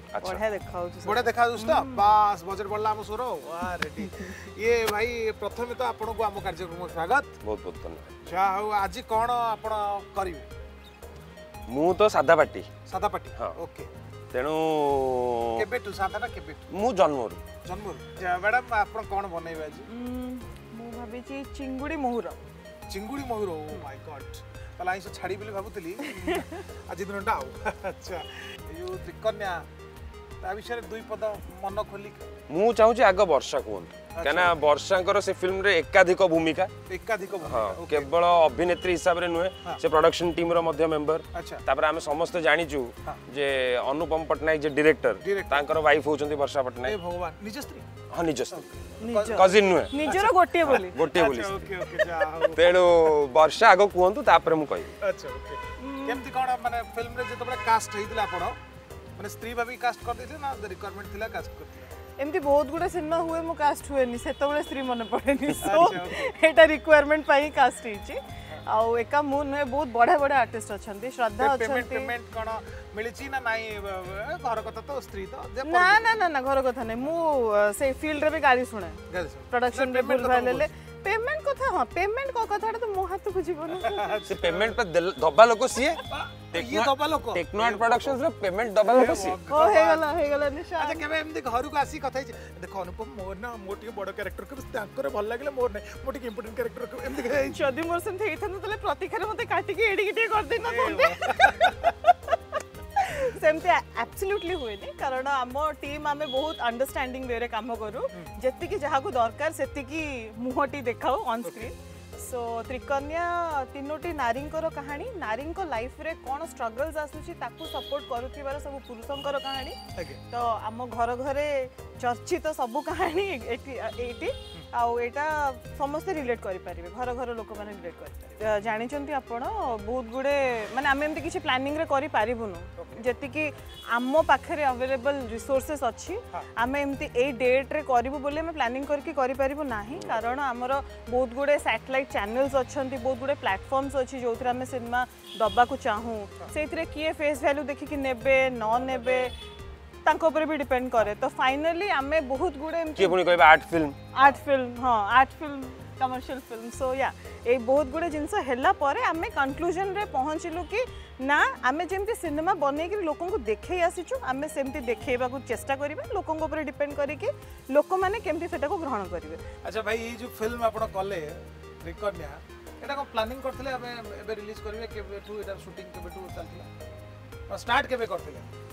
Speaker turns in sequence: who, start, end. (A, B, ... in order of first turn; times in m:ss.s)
0:00.1-0:00.4 A
0:00.2-0:02.2 B
0:01.0-0:07.3 C
0:04.0-0:04.5 B
0:07.4-0:08.1 A
0:08.2-0:10.5 C
0:11.7-0:12.7 A
0:12.9-0:13.9 C
0:14.3-0:15.6 A
0:15.6-0:16.7 C
0:16.7-0:17.4 A
0:17.6-0:19.9 C
0:19.9-0:22.4 B
0:22.9-0:29.7 C
0:26.1-0:26.5 B
0:30.4-0:32.2 C
0:32.5-0:36.7 A
0:34.1-0:34.6 C
0:36.9-0:38.1 C
0:37.4-0:47.0 A
0:41.3-0:41.6 C
0:45.2-0:45.7 C
0:46.8-0:47.9 C
0:48.1-0:48.7 A
0:48.5-0:49.4 C
0:49.0-0:51.0 B
0:49.2-0:50.0 A
0:50.0-0:52.9 C
0:50.6-0:51.8 A
0:52.0-0:52.3 B
0:52.5-0:55.0 A
0:55.0-0:58.6 C
0:55.8-0:56.2 B
0:59.2-1:01.9 C
1:02.2-1:12.1 B
1:05.6-1:06.3 C
1:11.4-1:16.2 C
1:15.6-1:24.3 B
1:19.1-1:20.7 C
1:23.8-1:24.8 C
1:24.3-1:29.4 A
1:26.1-1:28.2 C
1:28.8-1:30.1 C
1:29.5-1:31.0 B
1:30.8-1:37.6 C
1:37.3-1:42.4 B
1:40.6-1:42.0 C
1:43.0-1:59.8 B
1:51.4-1:52.0 C
2:00.0-2:00.2 C
2:00.3-2:29.4 B
2:12.8-2:13.1 C
2:19.9-2:20.4 A
2:28.7-2:29.3 C
2:30.0-2:33.2 B
2:33.0-2:34.0 A
2:34.1-2:49.4 B
2:49.6-2:56.7 C
2:57.5-2:58.5 C